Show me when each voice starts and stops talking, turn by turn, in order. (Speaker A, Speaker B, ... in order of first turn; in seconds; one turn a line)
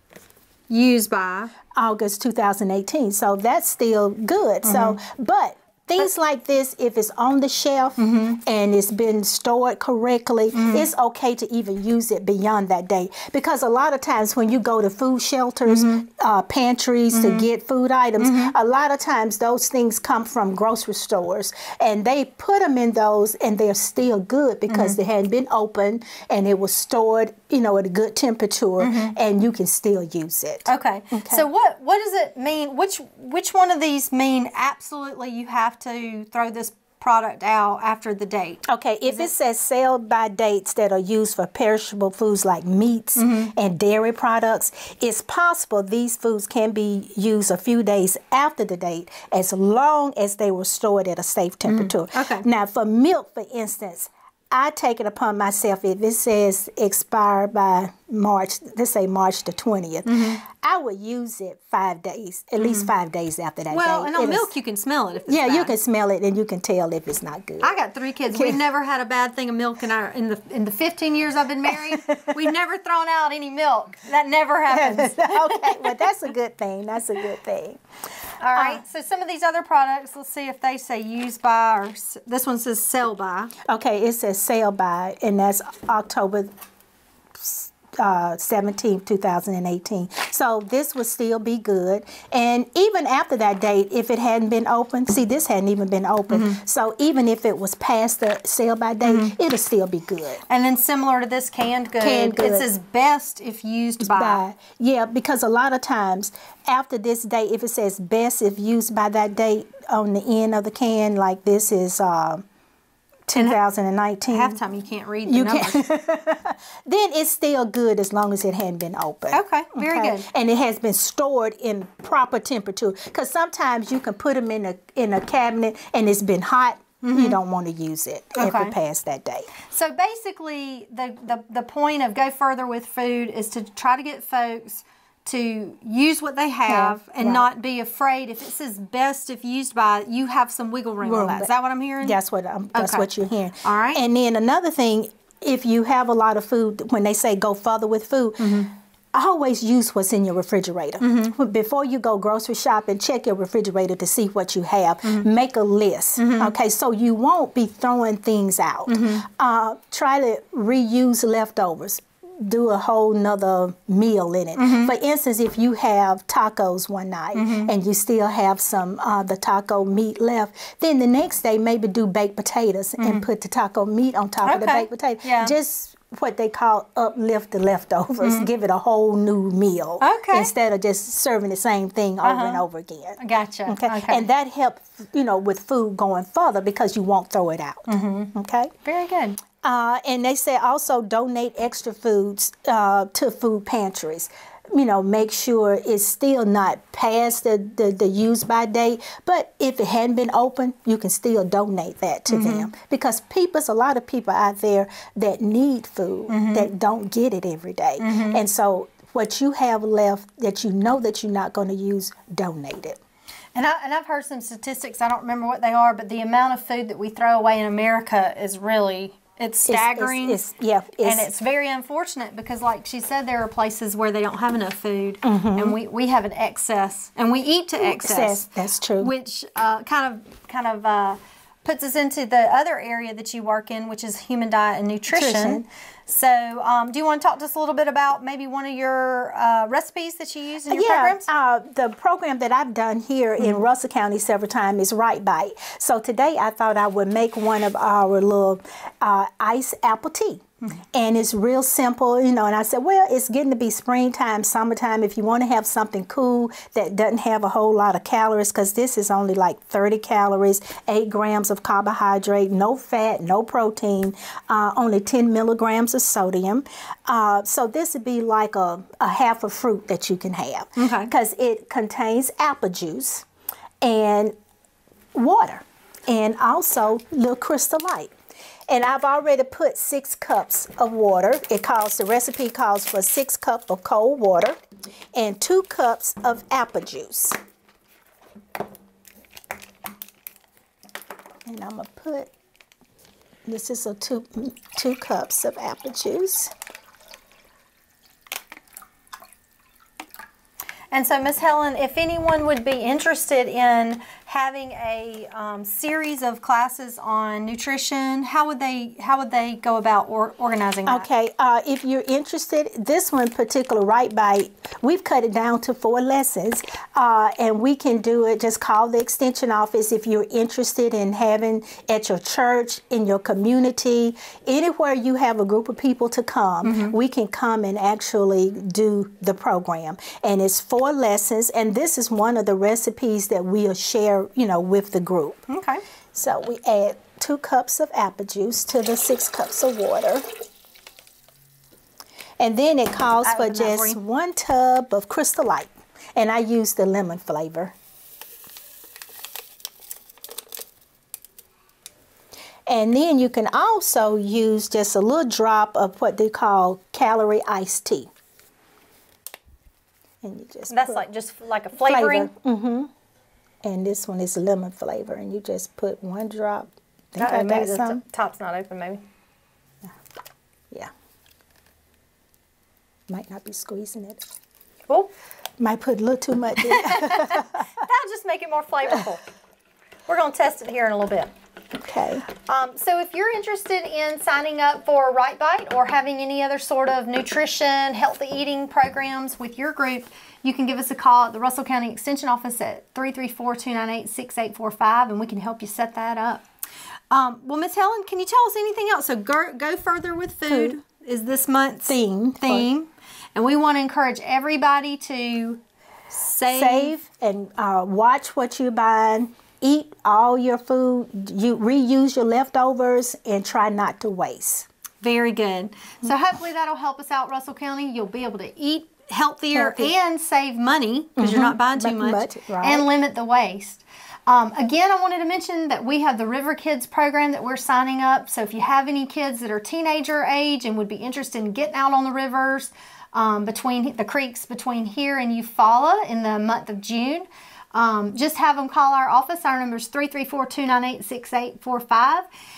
Speaker A: 0.7-1.5
Speaker B: 1.8-31.5
Speaker A: 4.6-5.0
Speaker A: 8.0-8.4
Speaker A: 10.5-10.9
Speaker A: 15.7-16.1
Speaker A: 17.1-17.5
Speaker A: 18.2-18.5
Speaker A: 24.7-25.0
Speaker A: 28.8-29.1
Speaker A: 30.7-39.3
Speaker B: 38.7-64.5
Speaker A: 43.2-43.5
Speaker A: 51.6-52.5
Speaker A: 60.1-60.4
Speaker A: 62.6-62.9
Speaker A: 63.7-65.7
Speaker B: 65.3-68.6
Speaker A: 67.6-76.1
Speaker B: 71.7-72.4
Speaker B: 74.7-77.8
Speaker A: 78.4-83.5
Speaker B: 78.5-78.8
Speaker B: 83.7-86.5
Speaker B: 87.4-100.4
Speaker A: 96.3-96.6
Speaker A: 99.0-99.3
Speaker A: 100.5-104.4
Speaker B: 102.0-102.7
Speaker B: 104.0-112.4
Speaker B: 113.3-114.6
Speaker A: 114.3-115.8
Speaker B: 115.2-129.5
Speaker A: 119.3-120.3
Speaker A: 127.0-127.4
Speaker A: 128.4-128.8
Speaker A: 129.7-142.2
Speaker B: 136.7-137.5
Speaker B: 141.0-188.7
Speaker A: 142.7-143.1
Speaker A: 143.6-144.0
Speaker A: 148.4-148.7
Speaker A: 151.0-151.3
Speaker A: 156.2-156.5
Speaker A: 158.9-159.2
Speaker A: 164.6-164.9
Speaker A: 167.3-167.7
Speaker A: 173.0-173.3
Speaker A: 174.4-175.6
Speaker A: 178.2-178.5
Speaker A: 180.0-180.5
Speaker A: 182.2-182.6
Speaker A: 183.2-184.3
Speaker A: 187.9-188.3
Speaker A: 188.8-189.4
Speaker B: 189.6-213.0
Speaker A: 202.3-202.7
Speaker A: 206.3-206.7
Speaker A: 208.0-208.4
Speaker A: 213.6-220.4
Speaker B: 219.7-221.3
Speaker A: 221.0-228.5
Speaker B: 225.2-225.8
Speaker B: 227.8-229.1
Speaker A: 229.0-241.3
Speaker B: 235.1-235.7
Speaker B: 240.7-273.2
Speaker A: 270.8-271.1
Speaker B: 273.8-274.4
Speaker B: 275.1-278.1
Speaker B: 278.7-284.6
Speaker B: 285.1-287.4
Speaker B: 291.4-292.3
Speaker B: 293.5-296.5
Speaker A: 300.9-311.1
Speaker B: 310.9-335.4
Speaker A: 326.6-326.9
Speaker A: 335.5-335.8
Speaker B: 336.1-340.3
Speaker B: 342.4-347.7
Speaker A: 343.2-344.0
Speaker B: 352.7-358.1
Speaker B: 360.2-361.1
Speaker A: 360.7-362.3
Speaker B: 361.8-362.9
Speaker B: 363.6-368.0
Speaker A: 367.2-369.0
Speaker B: 373.1-374.2
Speaker B: 375.6-377.6
Speaker A: 376.9-379.2
Speaker A: 380.1-381.3
Speaker B: 381.7-382.3
Speaker A: 382.5-396.4
Speaker A: 397.1-406.9
Speaker B: 400.5-400.8
Speaker B: 401.9-402.7
Speaker B: 406.5-414.7
Speaker A: 415.0-442.3
Speaker B: 419.5-419.9
Speaker B: 421.2-422.9